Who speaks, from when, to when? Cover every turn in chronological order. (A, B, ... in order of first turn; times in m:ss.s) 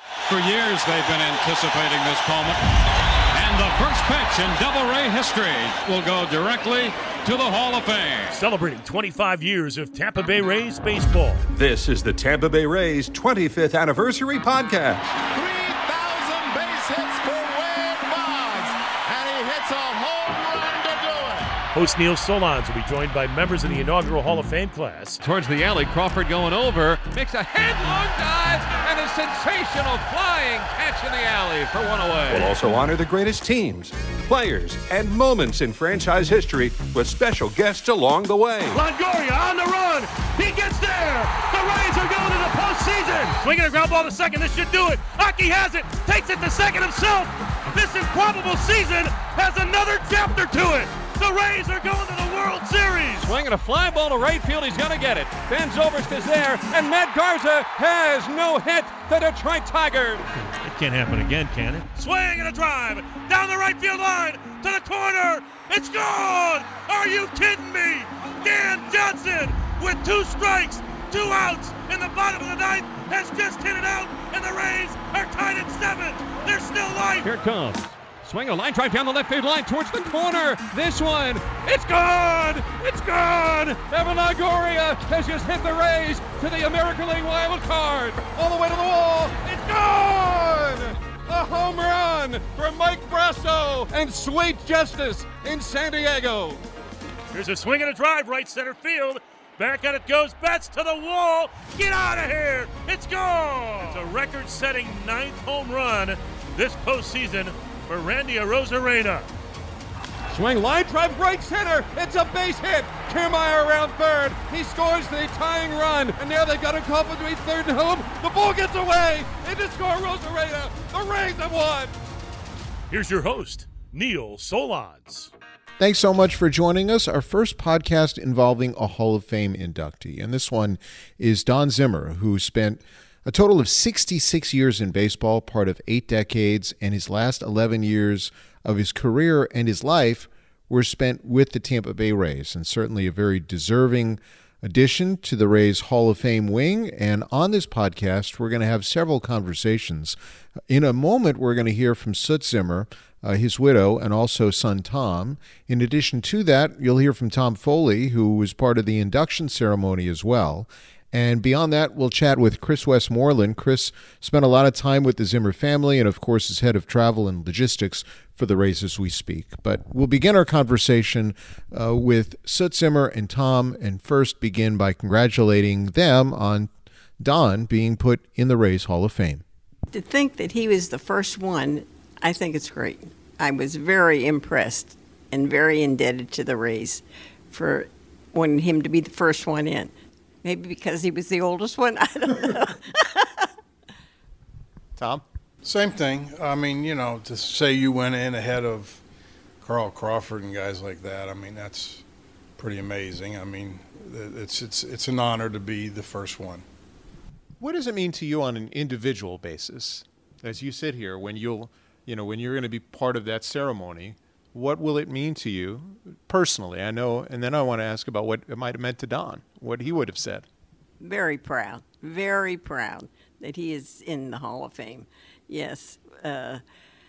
0:00.3-0:08.4 A
0:08.3-0:11.4 B
0:11.5-0:15.2 C
0:15.2-0:21.6 A
0:21.7-0:25.2 B
0:25.2-0:32.5 D
0:32.3-0:38.8 C
0:38.7-0:53.4 B
0:53.2-1:00.2 D
1:00.4-1:17.3 B
1:17.2-1:36.6 D
1:37.3-1:49.3 B
1:50.3-2:02.0 D
2:02.9-2:05.3 B
2:05.8-2:30.2 E
2:30.7-2:59.4 E
2:59.9-3:09.9 F
3:10.4-3:13.5 F
3:15.0-3:15.2 E
3:15.6-3:19.0 G
3:19.6-3:22.0 G
3:22.6-3:26.6 G
3:27.6-3:40.5 E
3:41.0-3:46.6 F